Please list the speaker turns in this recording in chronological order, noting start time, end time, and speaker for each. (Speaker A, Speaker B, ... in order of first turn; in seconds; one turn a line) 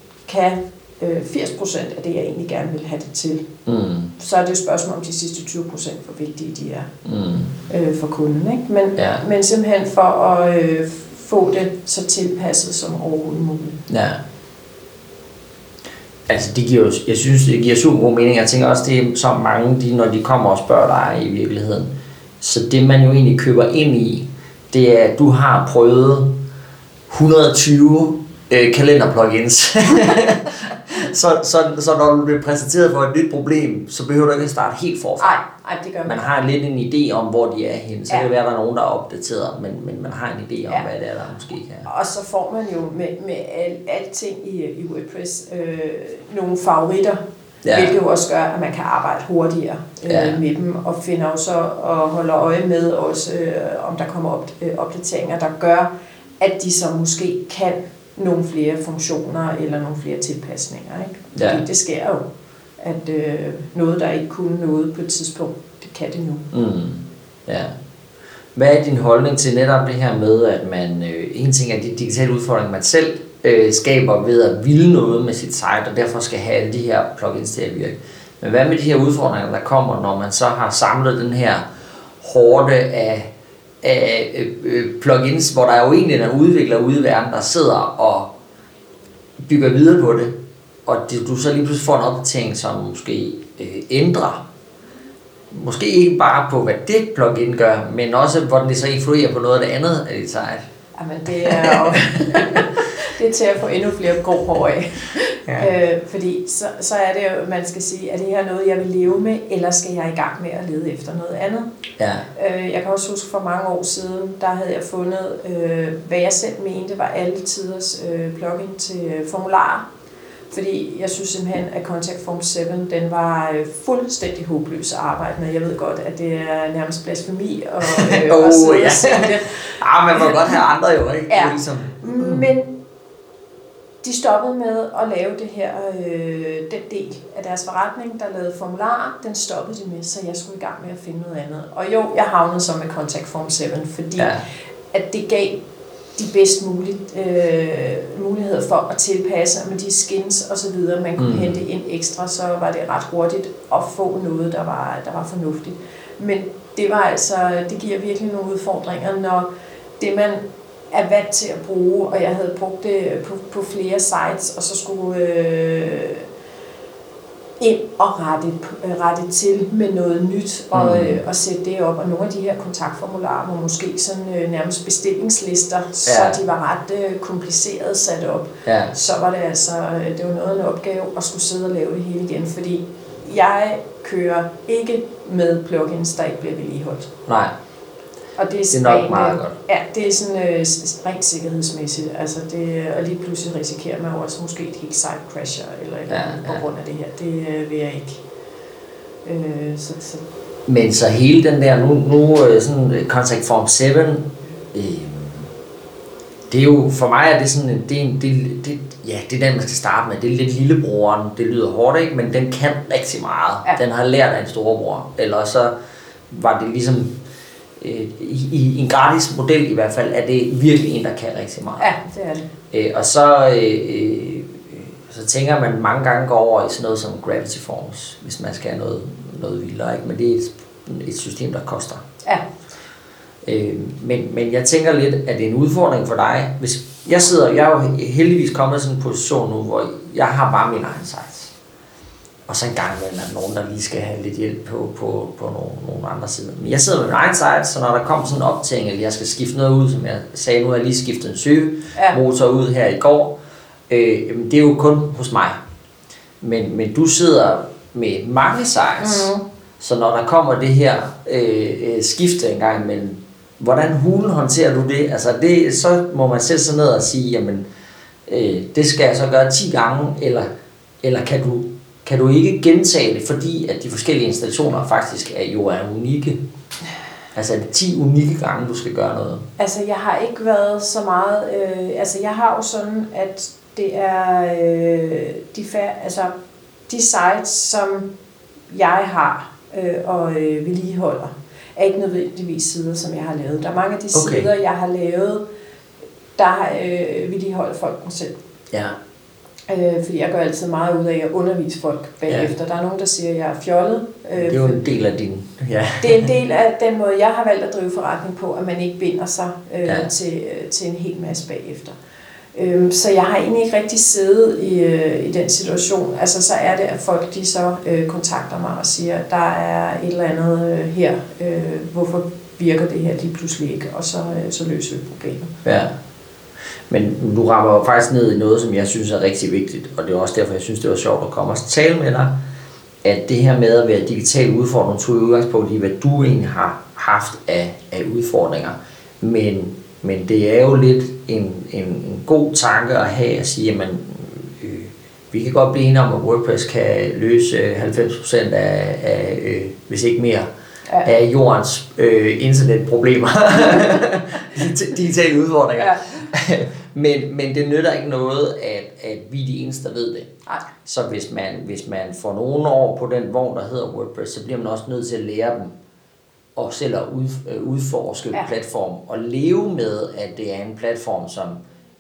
Speaker A: 0.3-3.5
Speaker B: 3.7-4.1
Speaker A: 4.2-6.9
Speaker B: 7.0-7.5
Speaker A: 7.7-13.8
Speaker B: 9.0-9.2
Speaker B: 13.9-14.2
Speaker B: 16.3-26.4
Speaker B: 27.1-35.4
Speaker A: 35.2-36.3
Speaker B: 36.0-41.9
Speaker A: 41.9-47.2
Speaker B: 47.6-47.9
Speaker A: 47.7-55.9
Speaker B: 50.1-50.4
Speaker A: 56.4-62.2
Speaker B: 61.4-61.6
Speaker A: 62.8-66.5
Speaker B: 66.5-67.7
Speaker B: 68.5-81.7
Speaker B: 82.2-88.3
Speaker B: 89.5-90.3
Speaker B: 90.8-94.4
Speaker B: 95.5-100.7
Speaker A: 101.0-111.7
Speaker B: 101.4-102.8
Speaker B: 112.0-112.3
Speaker A: 112.3-119.9
Speaker A: 120.5-130.5
Speaker B: 127.8-132.5
Speaker A: 131.3-132.7
Speaker A: 134.0-144.3
Speaker B: 144.2-144.4
Speaker A: 144.9-145.6
Speaker A: 146.2-159.5
Speaker B: 151.2-151.6
Speaker A: 160.0-166.2
Speaker A: 167.6-187.1
Speaker B: 170.7-171.2
Speaker B: 176.1-176.4
Speaker B: 178.7-178.9
Speaker B: 187.3-187.5
Speaker A: 188.4-198.2
Speaker B: 188.7-189.6
Speaker B: 196.1-196.6
Speaker A: 199.2-200.2
Speaker B: 200.7-205.5
Speaker B: 206.5-215.7
Speaker B: 216.3-217.2
Speaker B: 217.8-221.9
Speaker A: 221.8-222.5
Speaker B: 222.7-232.0
Speaker B: 233.4-241.5
Speaker B: 242.5-253.4
Speaker B: 253.9-255.6
Speaker B: 256.4-267.6
Speaker A: 259.0-259.4
Speaker B: 268.3-270.5
Speaker B: 271.0-276.4
Speaker B: 277.4-279.5
Speaker A: 279.6-286.3
Speaker A: 286.9-288.1
Speaker A: 288.7-295.4
Speaker B: 294.1-294.5
Speaker A: 296.4-298.4
Speaker B: 298.7-299.0
Speaker A: 299.7-304.8
Speaker B: 302.3-302.5
Speaker B: 304.4-306.3
Speaker A: 306.0-311.9
Speaker A: 312.6-325.5
Speaker B: 325.6-325.9
Speaker B: 326.9-332.4
Speaker B: 333.0-350.5
Speaker B: 351.0-360.3
Speaker A: 355.8-356.2
Speaker B: 360.8-365.7
Speaker B: 366.6-371.6